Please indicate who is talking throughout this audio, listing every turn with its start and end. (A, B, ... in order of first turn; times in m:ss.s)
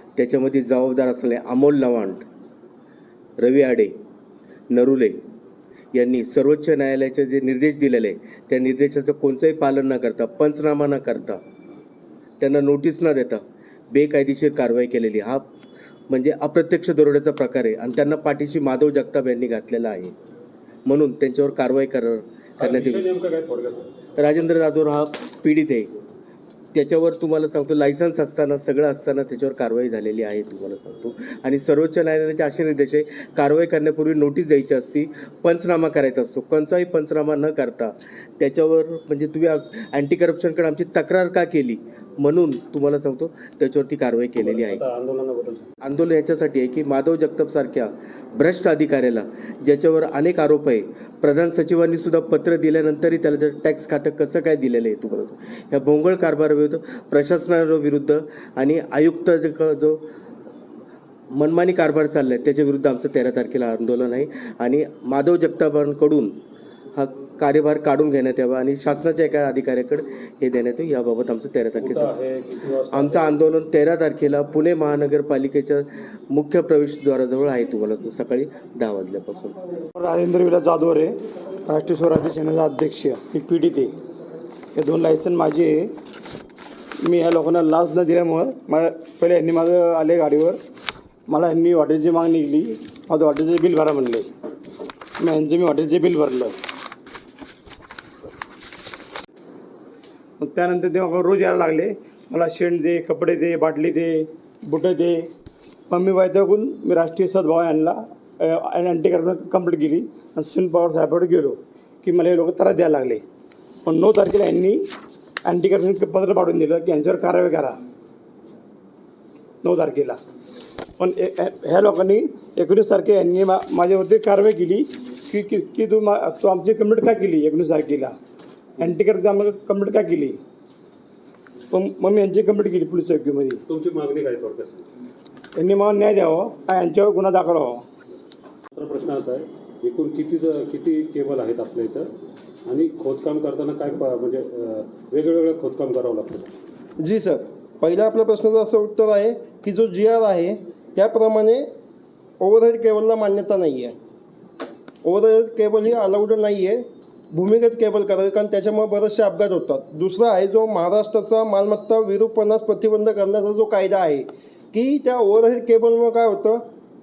0:00.2-0:02.2 A
0:03.4-0:03.9 A
0:04.7-0:05.2 A
0:05.9-0:11.4 A
0:12.4-0:15.4 A
0:16.1-0:20.2 A
0:20.9-0:23.1 A
0:22.6-0:23.9 B
0:24.2-0:25.9 A
0:26.7-0:44.8 A
0:44.4-0:45.7 B
0:45.8-1:00.0 A
1:01.3-1:06.3 A
1:07.0-1:12.2 A
1:11.8-1:13.4 B
1:12.9-1:19.6 A
1:20.0-1:23.9 C
1:24.8-1:25.9 C
1:27.0-1:30.6 C
1:31.3-1:34.3 C
1:35.2-1:36.6 C
1:40.4-1:45.3 C
1:45.9-1:53.2 C
1:53.8-1:54.8 C
1:55.4-1:57.8 C
1:59.6-2:00.2 C
2:01.0-2:08.2 C
2:08.8-2:10.4 C
2:11.7-2:13.6 C
2:13.7-2:14.9 B
2:15.6-2:17.8 C
2:18.7-2:22.1 B
2:22.7-2:26.5 B
2:27.0-2:31.7 D
2:32.4-2:34.0 D
2:35.0-2:46.6 D